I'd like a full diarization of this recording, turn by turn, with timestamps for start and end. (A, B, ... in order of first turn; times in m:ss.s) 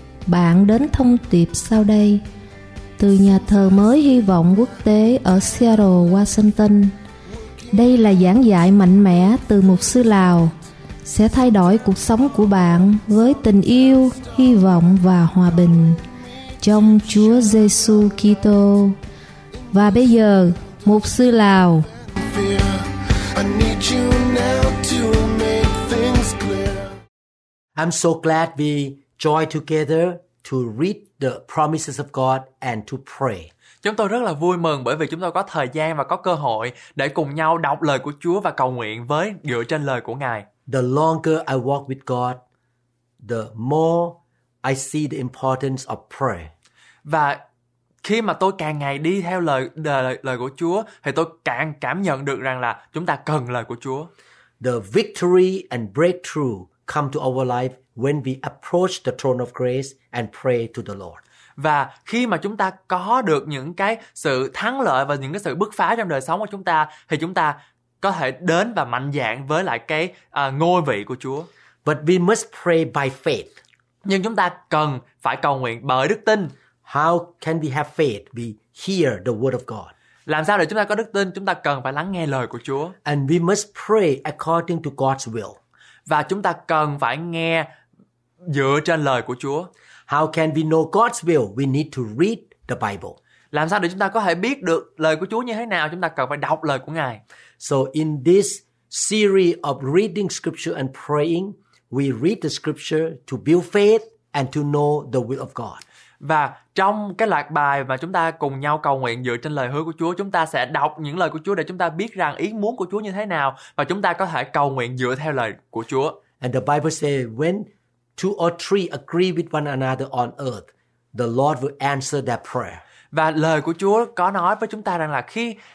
0:00.3-0:02.2 A
0:03.0-0:07.0 A
0:07.7-0:10.5 A
0:11.0-0:16.0 A
0:16.6-0:19.0 A
0:19.7-0:21.9 A
0:22.2-0:27.0 B
0:27.8-0:33.5 C
0:33.8-0:40.5 D
0:40.7-0:42.4 C
0:43.2-0:46.5 C
0:47.0-0:47.4 D
0:48.0-0:54.1 D
0:54.6-1:01.2 C
1:01.6-1:11.5 D
1:11.8-1:13.5 C
1:14.0-1:16.5 D
1:16.9-1:19.9 C
1:20.3-1:23.0 D
1:23.0-1:25.6 C
1:26.1-1:27.7 D
1:28.5-1:29.7 D
1:30.1-1:33.2 C
1:33.5-1:37.2 D
1:37.6-1:45.8 C
1:46.2-1:56.2 D
1:56.4-2:02.8 C
2:03.1-2:05.6 D